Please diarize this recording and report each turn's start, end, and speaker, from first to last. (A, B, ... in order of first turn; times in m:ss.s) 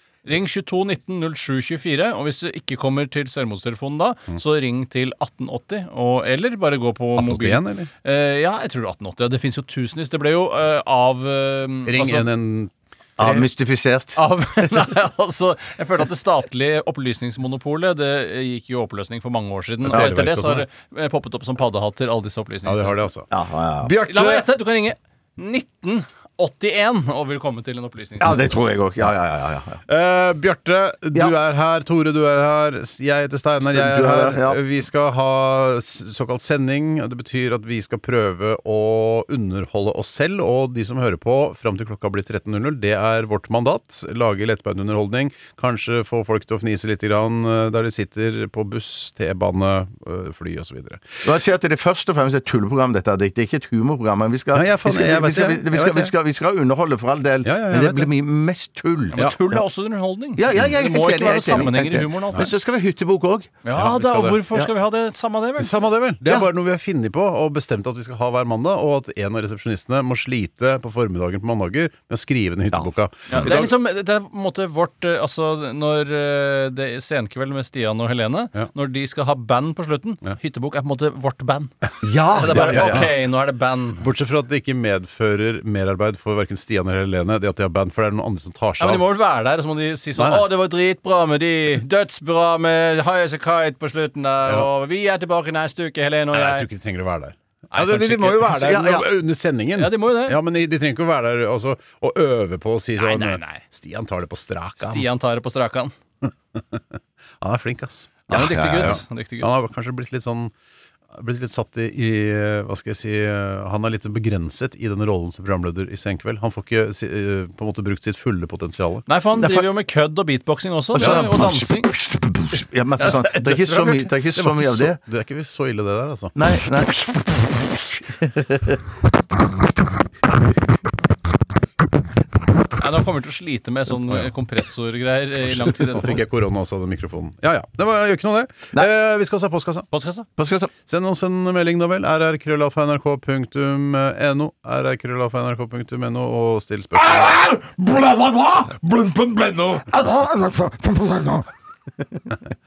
0:00.2-0:12.3 A
0:07.2-0:07.9 B
0:11.8-0:13.5 B
0:13.2-0:14.2 C
0:14.2-0:23.1 A
0:19.8-0:20.6 B
0:22.6-0:24.5 B
0:23.3-0:23.9 C
0:24.0-0:28.4 A
0:28.2-0:29.8 C
0:29.9-0:51.2 B
0:33.6-0:34.6 C
0:51.2-0:59.2 C
0:54.5-0:56.1 B
0:57.4-0:58.1 B
0:59.1-1:02.5 A
1:00.4-1:03.6 C
1:03.6-1:05.8 A
1:03.7-1:04.4 B
1:05.6-1:13.7 B
1:12.7-1:13.5 C
1:13.3-1:24.0 A
1:22.0-1:23.1 C
1:22.4-1:23.1 B
1:24.0-1:29.1 B
1:28.8-1:36.7 A
1:30.2-1:30.5 B
1:36.3-1:45.1 B
1:37.7-1:38.7 A
1:38.4-1:39.1 C
1:39.8-1:40.4 A
1:43.0-1:43.6 A
1:44.8-1:45.9 A
1:46.2-1:50.5 B
1:48.3-1:49.5 A
1:48.3-1:49.0 C
1:51.1-1:59.0 B
1:59.1-2:01.9 A
1:59.4-1:59.6 C
2:00.9-2:05.0 C
2:01.0-2:01.3 B
2:03.0-2:04.1 A
2:04.2-2:06.3 B
2:06.4-2:07.7 C
2:08.2-2:08.8 C
2:12.8-2:16.2 A
2:15.7-2:19.9 B
2:19.9-2:20.3 A
2:20.4-2:20.7 C
2:20.9-2:27.8 B
2:28.0-2:28.5 C
2:29.1-2:29.9 C
2:30.0-2:31.4 B